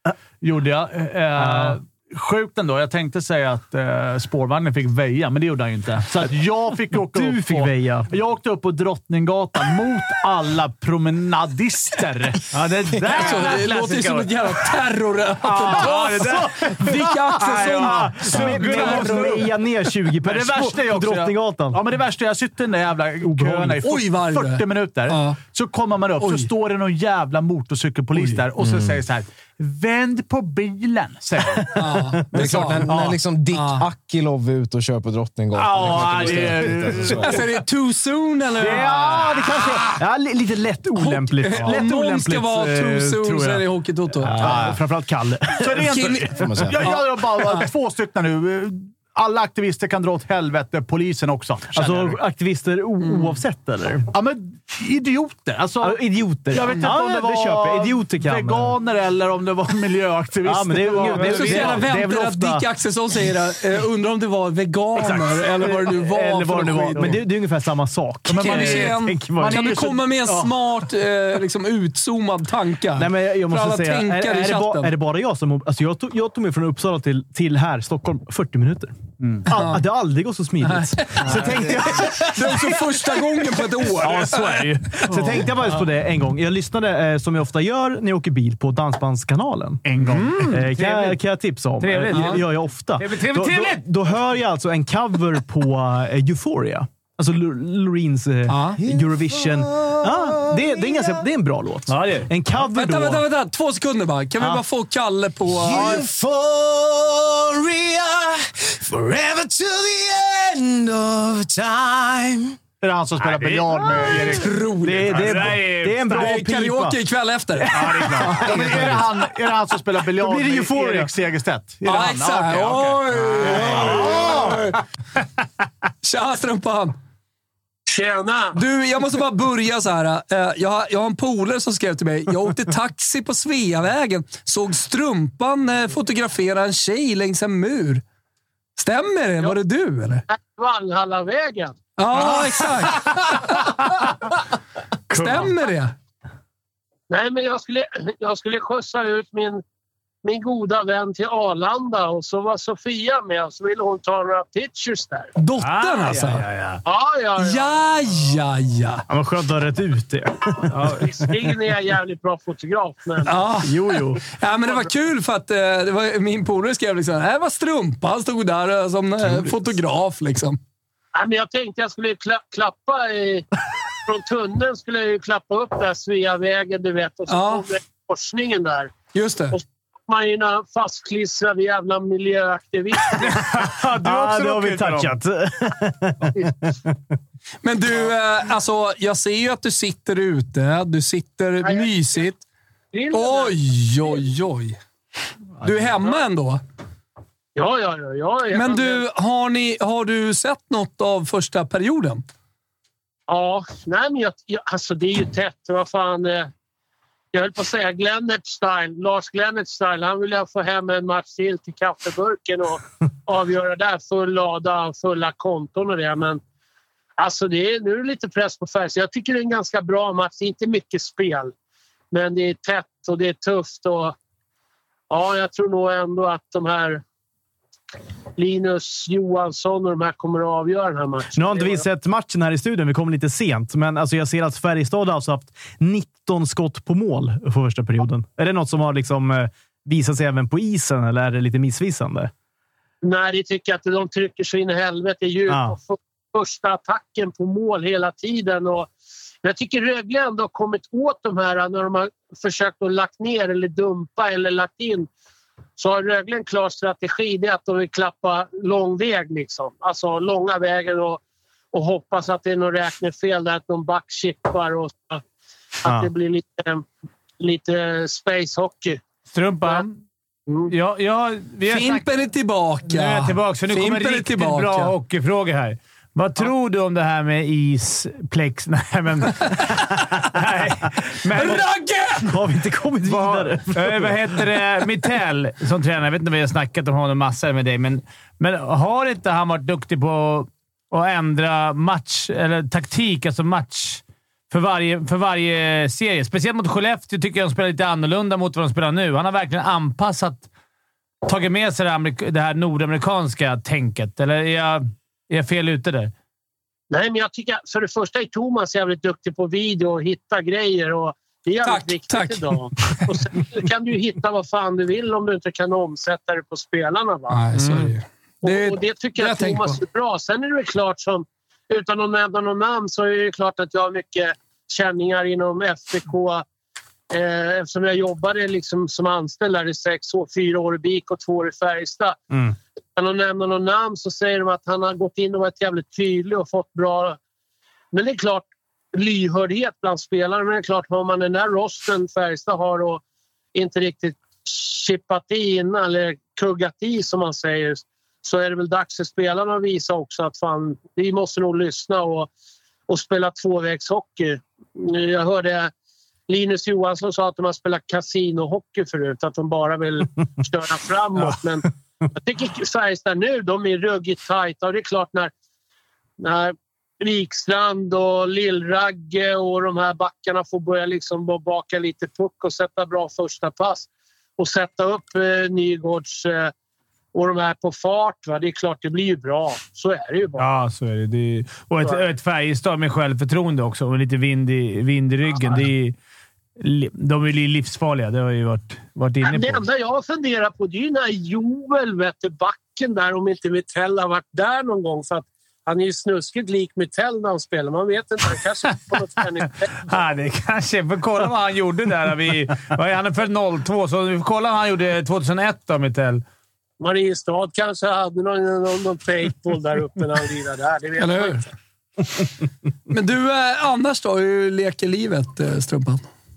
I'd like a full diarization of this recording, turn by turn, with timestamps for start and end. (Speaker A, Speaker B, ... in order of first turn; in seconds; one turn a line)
Speaker A: 0.4-14.0
Speaker B: 1.4-1.8
Speaker B: 6.1-8.1
Speaker B: 12.5-13.2
Speaker C: 12.9-14.2
Speaker D: 13.1-19.4
Speaker A: 15.5-16.9
Speaker C: 15.7-19.4
Speaker B: 17.3-21.8
Speaker A: 17.7-19.6
Speaker A: 20.2-31.8
Speaker B: 23.2-23.8
Speaker D: 23.8-25.4
Speaker D: 26.2-26.5
Speaker E: 28.6-29.0
Speaker B: 31.5-33.2
Speaker D: 31.7-32.9
Speaker E: 32.3-37.4
Speaker D: 33.5-33.8
Speaker A: 35.5-37.4
Speaker B: 35.8-37.1
Speaker D: 37.1-39.0
Speaker B: 38.6-43.7
Speaker D: 41.0-44.5
Speaker A: 41.5-41.8
Speaker B: 44.2-46.1
Speaker A: 44.4-44.7
Speaker E: 44.4-44.8
Speaker A: 45.6-52.2
Speaker D: 45.8-47.7
Speaker E: 46.4-46.9
Speaker B: 51.7-54.1
Speaker A: 54.1-61.9
Speaker B: 55.8-58.8
Speaker B: 60.4-62.7
Speaker D: 61.1-67.2
Speaker B: 65.0-70.5
Speaker A: 68.3-70.2
Speaker D: 68.4-74.9
Speaker B: 73.0-89.8
Speaker A: 79.2-79.5
Speaker D: 79.5-79.8
Speaker D: 80.6-84.6
Speaker A: 89.8-90.5
Speaker C: 90.0-91.2
Speaker B: 90.5-103.3
Speaker C: 91.8-93.8
Speaker D: 92.1-92.4
Speaker D: 98.5-98.8
Speaker E: 98.8-101.3
Speaker C: 101.9-102.3
Speaker D: 102.6-106.0
Speaker E: 105.5-112.6
Speaker B: 105.7-106.0
Speaker A: 112.8-115.4
Speaker C: 113.2-114.5
Speaker D: 114.4-115.4
Speaker B: 114.8-117.0
Speaker C: 115.0-116.2
Speaker D: 116.1-118.9
Speaker C: 117.7-118.3
Speaker A: 117.7-123.8
Speaker B: 118.4-119.3
Speaker B: 120.1-121.1
Speaker D: 121.8-124.1
Speaker C: 123.4-124.5
Speaker D: 126.0-127.0
Speaker F: 127.9-128.6
Speaker D: 128.6-138.0
Speaker D: 138.8-140.2
Speaker F: 140.3-141.8
Speaker D: 142.0-143.9
Speaker C: 142.2-142.6
Speaker D: 145.1-145.9
Speaker C: 145.1-145.5
Speaker F: 147.1-149.6
Speaker F: 150.2-155.3
Speaker D: 155.4-156.4
Speaker C: 155.6-156.8
Speaker F: 156.8-157.7
Speaker D: 157.4-159.0
Speaker B: 159.1-161.2
Speaker C: 160.7-161.0
Speaker F: 161.0-163.3
Speaker D: 163.2-170.6
Speaker B: 163.6-164.2
Speaker B: 169.2-169.7
Speaker F: 171.1-173.5
Speaker F: 174.1-178.9
Speaker D: 177.3-177.6
Speaker D: 179.1-179.6
Speaker F: 179.5-183.4
Speaker C: 183.2-185.1
Speaker B: 184.0-186.9
Speaker D: 187.6-192.4
Speaker F: 191.6-191.9
Speaker F: 192.9-193.6
Speaker D: 193.1-194.8
Speaker D: 195.6-196.6
Speaker F: 197.6-199.0
Speaker D: 198.5-202.2
Speaker F: 203.3-206.5
Speaker F: 207.3-216.4
Speaker F: 217.2-221.5
Speaker F: 222.1-224.1
Speaker F: 225.1-227.0
Speaker F: 228.4-231.8
Speaker B: 231.3-242.3
Speaker F: 243.0-248.9
Speaker B: 245.5-245.8
Speaker F: 249.4-255.1
Speaker F: 255.8-261.2
Speaker F: 261.7-265.2
Speaker F: 265.8-266.9
Speaker F: 267.4-269.0
Speaker C: 269.3-270.0
Speaker C: 270.7-272.1
Speaker D: 271.7-274.9
Speaker C: 272.9-281.6
Speaker D: 281.3-282.3
Speaker B: 282.2-284.4
Speaker C: 283.0-300.5
Speaker C: 301.2-306.1
Speaker F: 306.9-317.4
Speaker D: 311.6-313.0
Speaker D: 317.3-319.8
Speaker F: 318.4-326.4
Speaker F: 327.1-332.2
Speaker F: 332.9-337.2
Speaker F: 337.9-343.0
Speaker F: 343.5-352.3
Speaker F: 352.9-355.7
Speaker F: 356.3-365.3
Speaker F: 366.2-376.5
Speaker F: 377.1-380.4
Speaker C: 380.4-385.9
Speaker C: 386.6-389.6
Speaker F: 389.2-399.7
Speaker C: 399.8-406.2
Speaker F: 406.8-411.4
Speaker D: 411.0-411.4
Speaker D: 412.9-416.0